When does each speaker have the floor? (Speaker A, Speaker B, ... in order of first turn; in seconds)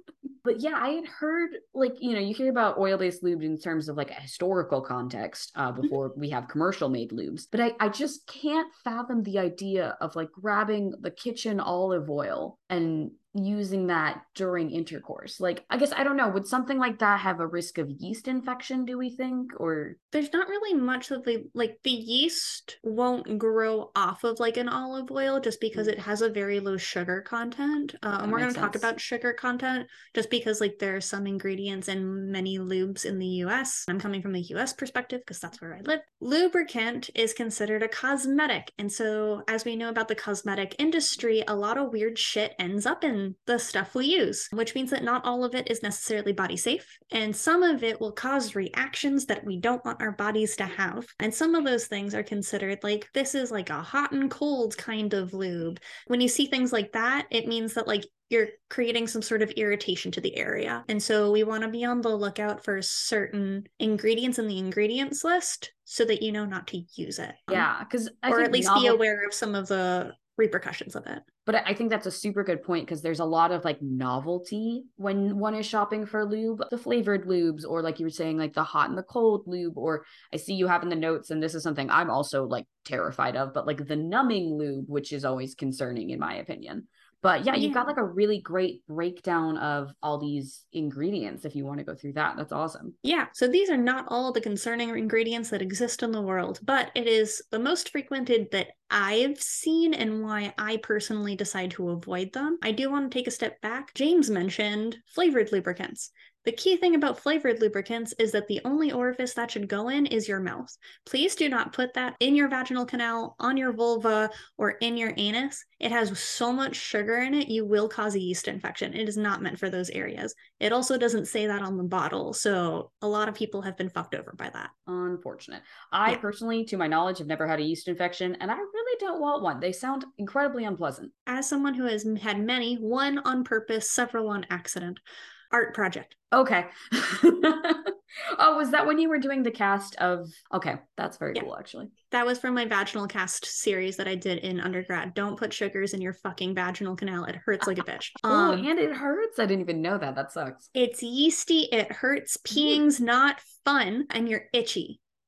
Speaker A: 0.4-20.0, 28.2-28.9, 67.5-69.0, 71.5-92.9, 124.9-131.1, 136.3-141.9, 148.2-150.7
Speaker B: 20.1-67.7, 68.3-71.2, 87.5-88.0, 93.0-124.7, 131.3-136.2, 142.1-148.7, 150.7-155.0